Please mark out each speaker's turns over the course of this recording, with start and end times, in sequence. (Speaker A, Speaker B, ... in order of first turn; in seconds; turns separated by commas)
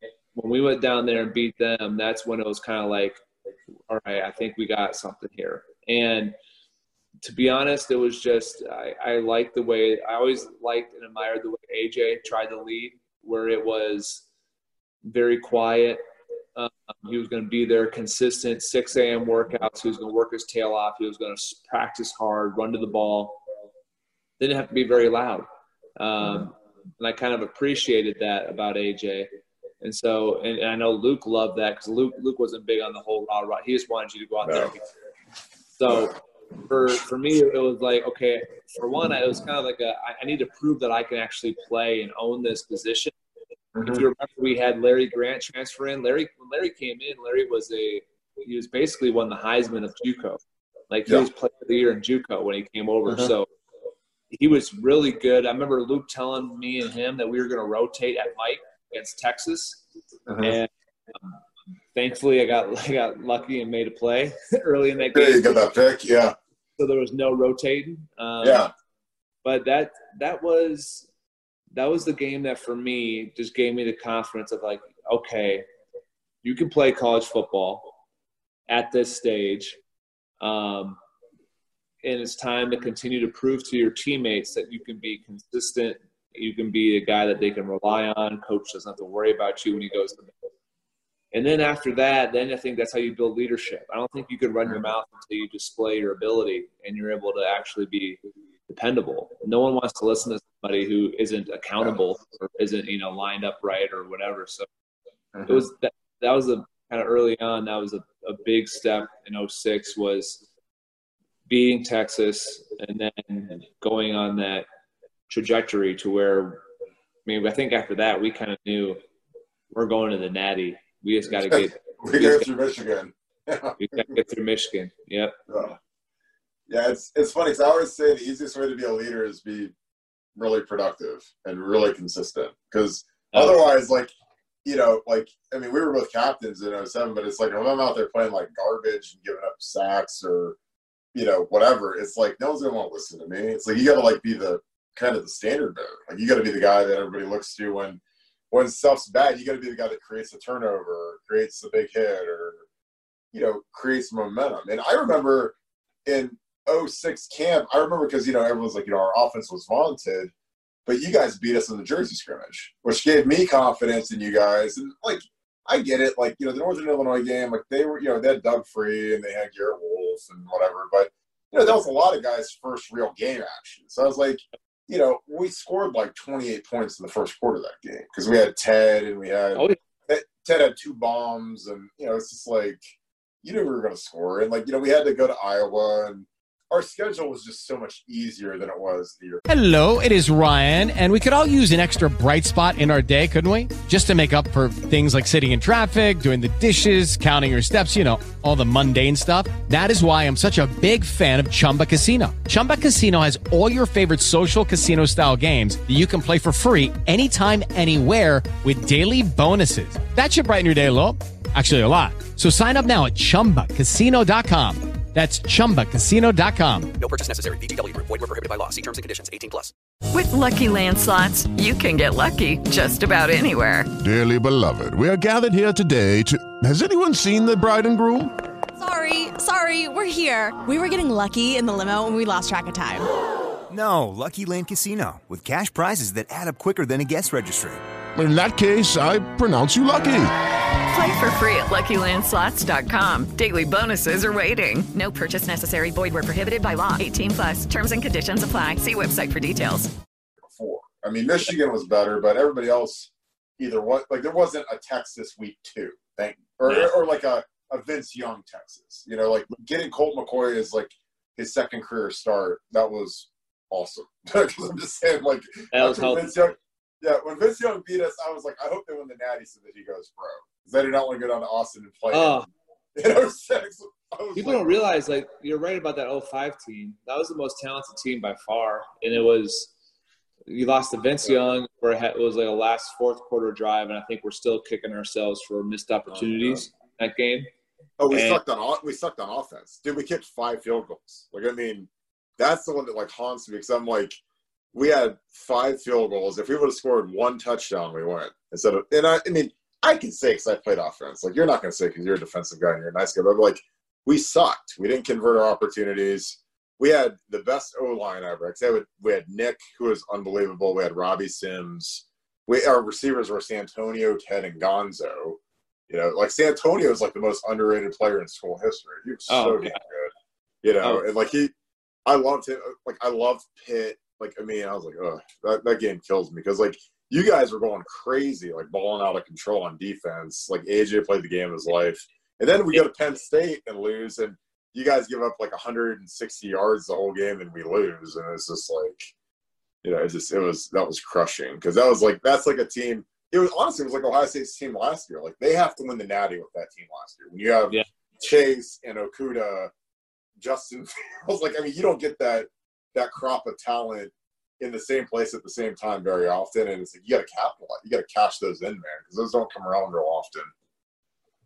Speaker A: 0.3-3.2, Speaker A: 3.9-6.3, Speaker A: 7.2-14.3, Speaker A: 15.1-16.0, Speaker A: 16.6-23.4, Speaker A: 24.4-25.5, Speaker A: 26.0-29.3, Speaker A: 29.8-34.8, Speaker B: 34.4-34.7, Speaker A: 35.8-43.1, Speaker B: 43.8-44.0, Speaker A: 43.9-50.4, Speaker A: 50.9-53.5, Speaker B: 53.1-53.3, Speaker A: 54.3-59.8, Speaker B: 60.3-60.6, Speaker A: 60.4-60.7, Speaker A: 61.9-65.7, Speaker B: 65.1-66.3, Speaker A: 66.8-68.7, Speaker B: 68.4-68.7, Speaker A: 69.4-71.1, Speaker A: 71.7-75.7, Speaker A: 76.4-77.9, Speaker A: 78.7-79.8, Speaker A: 80.4-81.0, Speaker A: 82.0-90.3, Speaker A: 91.3-104.7, Speaker B: 105.3-105.6, Speaker A: 105.5-110.5, Speaker A: 111.5-114.7, Speaker A: 115.3-116.6, Speaker A: 117.3-119.0, Speaker A: 119.7-122.5, Speaker B: 121.3-124.2, Speaker A: 123.8-125.4, Speaker B: 125.5-125.8, Speaker B: 126.7-129.7, Speaker B: 130.4-134.1, Speaker A: 133.3-133.6, Speaker B: 134.7-140.6, Speaker B: 141.1-148.0, Speaker B: 148.5-152.7, Speaker B: 153.3-155.6, Speaker B: 156.1-160.3, Speaker B: 160.9-182.8, Speaker B: 183.4-189.4, Speaker C: 189.5-216.9, Speaker D: 217.0-219.7, Speaker E: 220.1-223.9, Speaker F: 224.0-228.3, Speaker G: 228.8-233.1, Speaker H: 233.7-237.8, Speaker F: 238.2-240.3, Speaker E: 240.9-249.9, Speaker B: 250.5-274.8, Speaker A: 256.6-256.9, Speaker A: 265.7-266.4, Speaker A: 272.1-272.5, Speaker A: 274.4-279.7, Speaker A: 280.5-287.5, Speaker B: 286.1-286.6, Speaker B: 288.0-294.2, Speaker A: 288.1-288.4, Speaker B: 294.7-320.1, Speaker A: 319.3-319.8, Speaker B: 320.6-321.5, Speaker B: 322.1-339.1, Speaker B: 339.8-349.7, Speaker B: 350.4-360.5